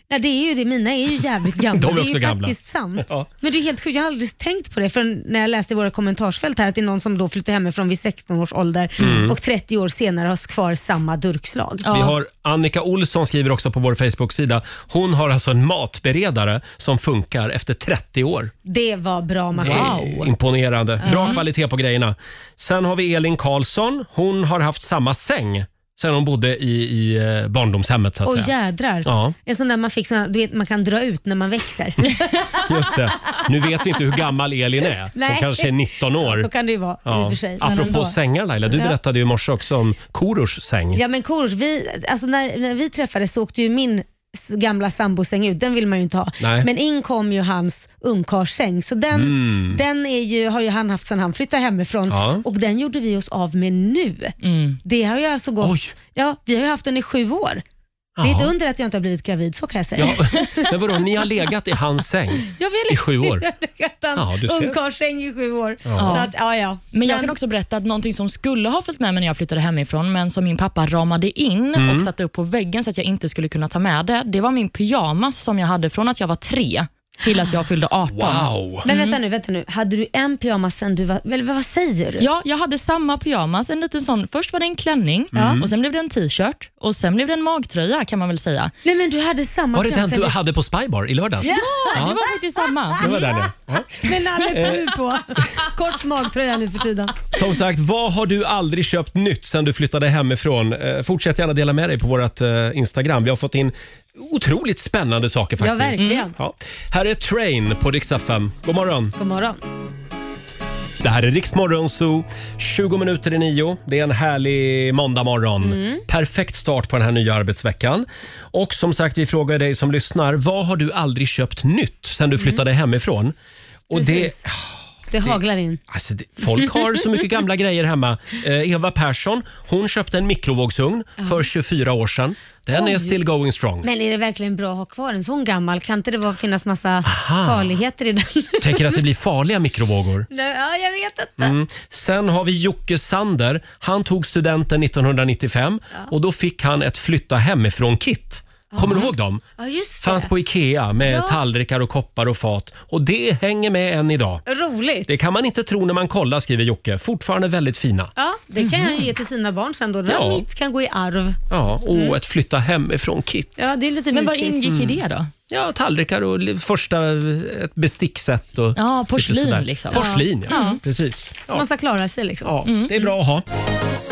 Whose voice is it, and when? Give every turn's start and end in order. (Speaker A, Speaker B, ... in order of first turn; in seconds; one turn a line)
Speaker A: 0.1-11.9
Speaker B: 1.7-3.3
Speaker B: 9.0-9.3
Speaker C: 11.8-12.1
Speaker B: 11.9-18.5
Speaker A: 18.6-20.0
Speaker B: 19.6-28.5
Speaker C: 19.6-20.3
Speaker A: 21.0-21.4
Speaker C: 21.1-21.4
Speaker A: 28.2-32.7
Speaker B: 29.0-29.3
Speaker B: 32.6-36.5
Speaker A: 35.1-38.1
Speaker B: 37.0-41.0
Speaker A: 38.7-39.0
Speaker A: 40.9-57.6
Speaker B: 46.4-46.7
Speaker B: 49.1-49.8
Speaker B: 52.1-52.4
Speaker C: 54.4-54.8
Speaker B: 55.6-55.9
Speaker B: 58.2-58.5
Speaker A: 58.2-60.7
Speaker B: 60.0-63.4
Speaker A: 62.5-67.3
Speaker B: 64.2-64.8
Speaker B: 65.9-66.2
Speaker C: 66.0-66.3
Speaker C: 66.9-79.2
Speaker B: 71.8-72.1
Speaker B: 78.1-78.8
Speaker A: 78.8-82.2
Speaker C: 82.2-88.7
Speaker B: 85.3-85.7
Speaker A: 85.3-85.6
Speaker A: 88.8-90.3
Speaker B: 89.7-92.2
Speaker A: 91.4-92.1
Speaker C: 91.4-93.1
Speaker A: 93.0-93.5
Speaker B: 93.0-94.9
Speaker A: 94.0-97.3
Speaker B: 97.3-109.1
Speaker A: 105.6-106.3
Speaker C: 106.0-106.3
Speaker A: 109.2-109.6
Speaker B: 111.0-123.3
Speaker A: 115.6-116.0
Speaker B: 123.9-124.7
Speaker A: 123.9-124.4
Speaker A: 125.1-125.8
Speaker B: 125.9-133.9
Speaker A: 126.6-127.1
Speaker A: 131.2-131.4
Speaker A: 132.7-133.2
Speaker A: 133.8-139.0
Speaker B: 137.0-137.8
Speaker B: 138.6-140.3
Speaker A: 140.3-141.5
Speaker B: 141.4-149.4
Speaker A: 148.7-150.3
Speaker B: 150.0-154.4
Speaker A: 151.0-151.4
Speaker A: 154.5-155.1
Speaker B: 155.1-158.1
Speaker A: 158.2-161.4
Speaker C: 158.6-158.9
Speaker B: 160.1-160.4
Speaker B: 161.5-163.7
Speaker A: 161.9-162.2
Speaker A: 163.6-164.8
Speaker C: 164.1-165.3
Speaker B: 165.5-171.6
Speaker C: 168.8-170.8
Speaker A: 169.9-170.8
Speaker A: 171.5-172.5
Speaker B: 172.4-173.4
Speaker C: 172.7-173.1